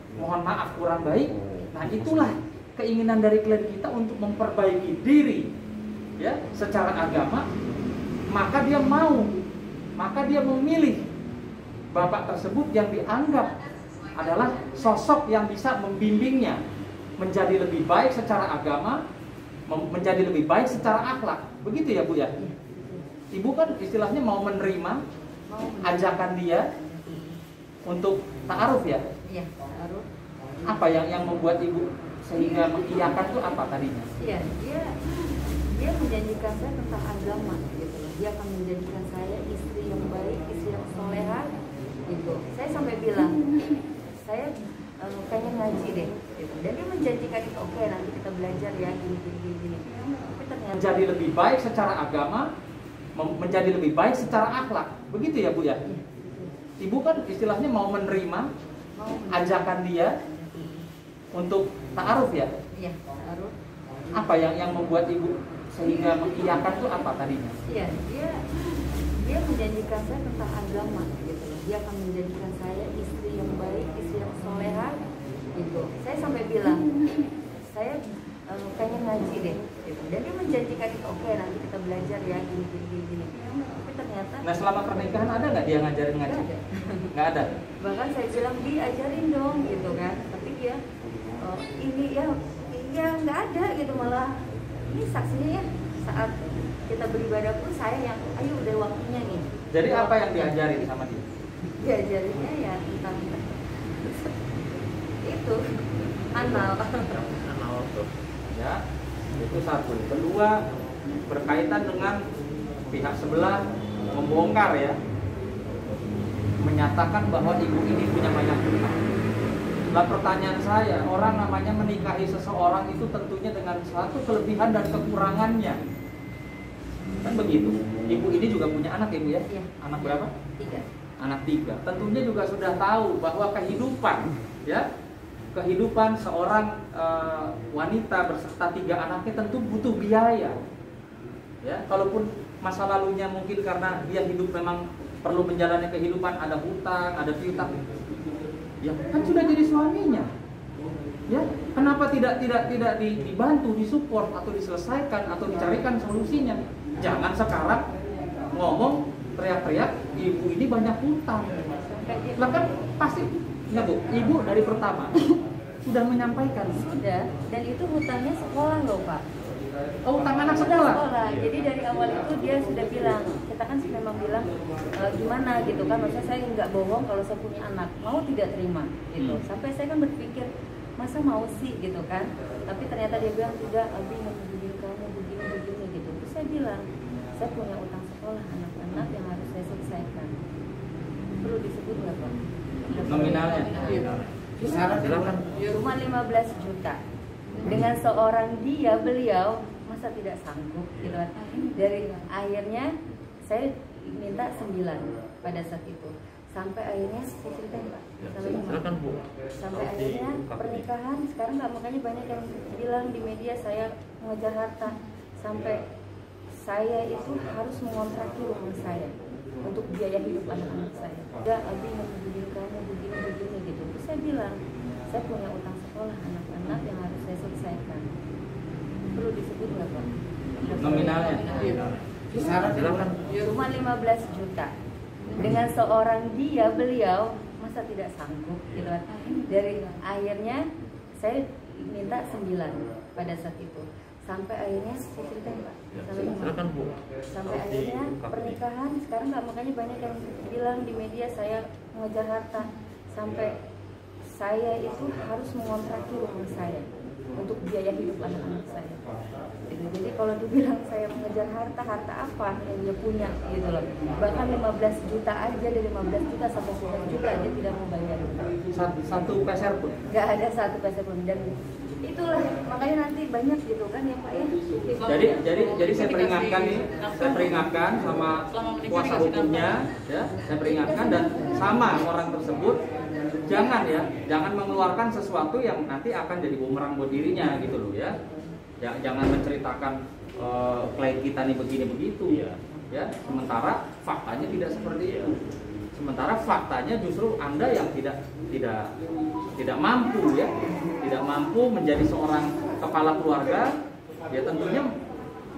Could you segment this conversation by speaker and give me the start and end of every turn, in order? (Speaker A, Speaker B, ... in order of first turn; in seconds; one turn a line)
Speaker A: 0.2-5.5
Speaker A: 6.2-7.5
Speaker A: 8.3-9.3
Speaker A: 10.0-11.1
Speaker A: 11.9-13.6
Speaker A: 14.2-16.6
Speaker A: 17.2-19.0
Speaker A: 19.7-22.3
Speaker B: 22.4-23.1
Speaker A: 23.3-25.0
Speaker B: 25.5-27.4
Speaker A: 25.8-26.6
Speaker A: 27.9-29.1
Speaker B: 29.3-30.1
Speaker A: 30.7-34.1
Speaker B: 32.4-33.2
Speaker B: 34.2-34.9
Speaker B: 35.8-41.5
Speaker B: 42.1-43.4
Speaker B: 44.2-51.1
Speaker A: 50.7-52.5
Speaker A: 53.2-55.8
Speaker B: 55.9-56.5
Speaker A: 56.8-58.5
Speaker B: 59.0-60.9
Speaker A: 59.3-60.1
Speaker A: 61.3-62.5
Speaker B: 62.7-63.5
Speaker A: 64.2-67.6
Speaker B: 65.8-67.0
Speaker B: 67.7-68.4
Speaker B: 69.2-75.0
Speaker B: 75.5-76.8
Speaker B: 77.7-85.4
Speaker A: 84.4-86.5
Speaker B: 86.2-87.1
Speaker A: 87.1-87.5
Speaker B: 87.8-90.8
Speaker B: 91.4-94.4
Speaker B: 94.9-96.3
Speaker B: 96.9-100.7
Speaker A: 99.7-101.2
Speaker B: 101.8-104.3
Speaker B: 105.2-105.6
Speaker B: 106.3-107.2
Speaker C: 106.4-108.1
Speaker A: 108.5-108.8
Speaker A: 109.4-110.6
Speaker A: 111.3-112.2
Speaker A: 112.9-113.6
Speaker A: 114.1-115.0
Speaker A: 116.6-119.0
Speaker A: 119.9-125.8
Speaker A: 127.2-130.3
Speaker B: 129.5-130.8
Speaker A: 131.2-134.8
Speaker A: 135.5-140.6
Speaker A: 141.6-147.8
Speaker A: 148.8-150.3
Speaker A: 151.3-157.8
Speaker A: 158.5-161.6
Speaker B: 161.8-162.7
Speaker A: 162.4-165.1
Speaker A: 165.8-166.8
Speaker B: 166.7-169.2
Speaker A: 170.1-171.0
Speaker B: 170.5-180.5
Speaker C: 171.3-171.5
Speaker B: 181.0-186.8
Speaker B: 187.4-190.3
Speaker B: 191.4-197.0
Speaker A: 193.1-194.1
Speaker C: 194.6-195.4
Speaker B: 197.6-202.9
Speaker B: 203.5-209.0
Speaker C: 208.2-210.9
Speaker B: 209.6-215.8
Speaker B: 216.7-219.1
Speaker B: 219.6-224.6
Speaker B: 225.1-228.1
Speaker B: 229.1-234.7
Speaker A: 230.8-231.8
Speaker C: 232.7-233.2
Speaker B: 235.3-240.6
Speaker B: 241.2-246.7
Speaker C: 245.9-248.6
Speaker B: 247.3-253.5
Speaker B: 254.4-256.9
Speaker B: 257.4-259.0
Speaker B: 259.7-268.5
Speaker A: 268.8-270.0
Speaker B: 270.1-275.3
Speaker A: 275.1-282.8
Speaker B: 280.5-282.0
Speaker A: 283.4-288.2
Speaker A: 288.8-295.4
Speaker C: 292.3-292.6
Speaker C: 295.0-295.3
Speaker A: 295.9-298.9
Speaker A: 299.6-303.7
Speaker A: 304.3-304.9